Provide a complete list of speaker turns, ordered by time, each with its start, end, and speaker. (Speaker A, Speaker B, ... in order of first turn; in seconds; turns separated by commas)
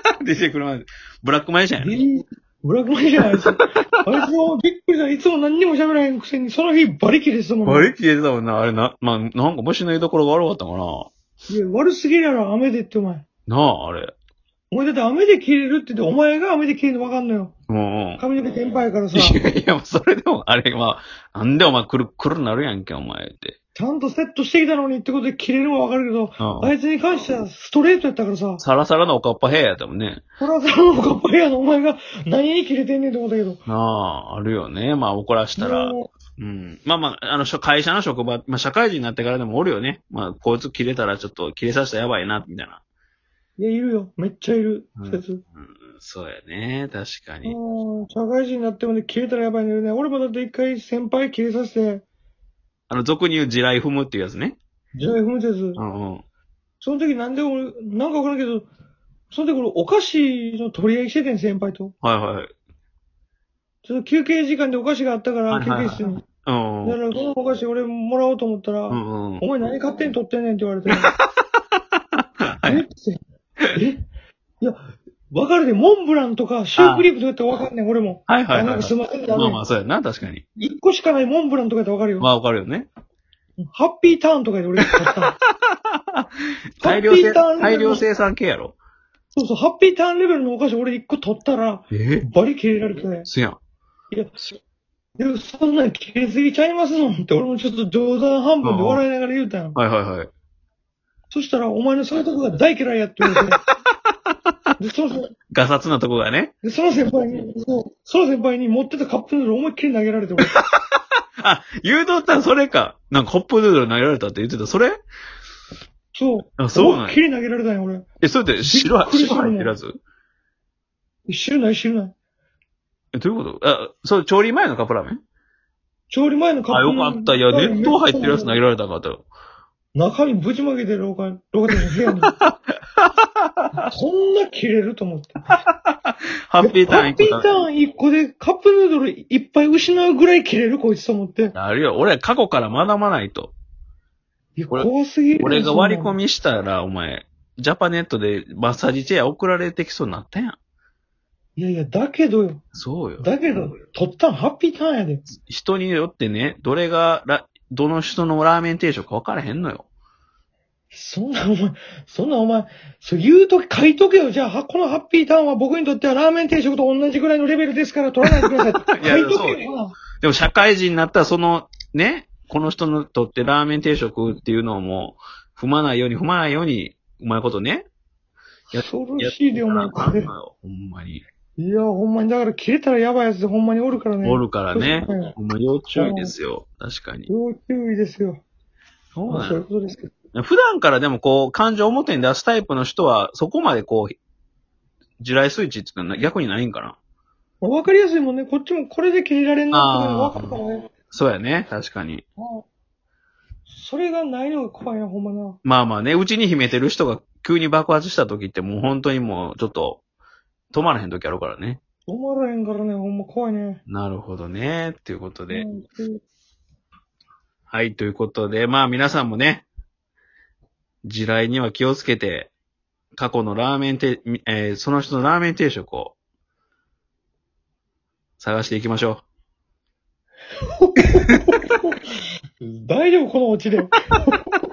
Speaker A: 0.2-2.0, Speaker B: 1.8-7.9, Speaker A: 7.7-11.1, Speaker B: 11.5-13.2, Speaker A: 13.5-14.1, Speaker B: 14.7-17.5, Speaker A: 17.7-18.2, Speaker B: 18.2-19.4, Speaker A: 19.1-23.5, Speaker B: 23.7-28.6, Speaker A: 26.4-26.7, Speaker A: 28.6-30.2, Speaker B: 30.4-33.6, Speaker A: 33.7-42.8, Speaker B: 35.6-36.1, Speaker B: 43.6-45.4, Speaker A: 45.0-47.6, Speaker B: 47.4-52.0, Speaker A: 52.9-54.6, Speaker B: 55.0-55.8, Speaker A: 55.8-56.2, Speaker B: 56.8-58.7, Speaker B: 59.3-61.9, Speaker A: 62.0-62.5, Speaker B: 63.8-66.2, Speaker A: 65.5-67.0, Speaker B: 66.8-71.1, Speaker A: 68.9-69.4, Speaker A: 72.5-72.8, Speaker B: 72.6-73.2, Speaker B: 73.7-74.0, Speaker B: 74.6-79.6, Speaker A: 76.8-77.0, Speaker A: 78.3-80.4, Speaker B: 80.6-82.3, Speaker A: 82.2-82.9, Speaker B: 83.6-85.3, Speaker A: 86.8-88.8, Speaker B: 86.8-88.0, Speaker B: 89.3-93.3, Speaker A: 91.9-92.3, Speaker A: 93.3-93.6, Speaker B: 94.1-94.6, Speaker B: 95.2-99.8, Speaker A: 98.6-99.0, Speaker A: 99.7-100.3, Speaker B: 101.3-103.6, Speaker B: 104.8-105.3, Speaker A: 105.5-106.5, Speaker B: 106.6-110.5, Speaker A: 111.4-115.0, Speaker B: 116.1-118.0, Speaker A: 116.6-117.2, Speaker A: 118.2-120.0, Speaker B: 118.6-119.7, Speaker B: 121.3-122.1, Speaker A: 123.1-125.2, Speaker B: 126.1-128.6, Speaker A: 126.7-129.2, Speaker B: 129.9-132.3, Speaker A: 132.4-133.6, Speaker B: 133.8-135.3, Speaker A: 135.7-137.5, Speaker B: 136.6-141.5, Speaker A: 141.5-143.5, Speaker B: 144.6-146.2, Speaker A: 144.7-150.6, Speaker B: 151.6-152.6, Speaker A: 152.7-153.3, Speaker B: 153.2-155.2, Speaker A: 155.3-159.9, Speaker B: 160.9-170.0, Speaker A: 168.9-169.6, Speaker A: 170.2-177.9, Speaker B: 178.7-180.3, Speaker A: 178.7-181.2, Speaker B: 181.6-185.3, Speaker A: 184.2-187.3, Speaker B: 185.9-186.3, Speaker B: 187.3-188.4, Speaker A: 189.1-189.6, Speaker B: 189.3-190.1, Speaker A: 190.3-194.1, Speaker A: 195.2-196.9, Speaker B: 197.6-200.8, Speaker A: 199.7-200.6, Speaker A: 201.1-202.2, Speaker B: 202.4-202.6, Speaker B: 203.7-205.6, Speaker A: 205.6-210.0, Speaker A: 210.7-211.8, Speaker B: 212.1-213.8, Speaker A: 213.9-215.7, Speaker B: 215.5-216.2, Speaker A: 217.7-219.7, Speaker A: 221.0-222.5, Speaker A: 223.2-226.2, Speaker A: 228.4-229.2, Speaker B: 230.8-231.5, Speaker A: 231.1-231.6, Speaker B: 232.6-234.3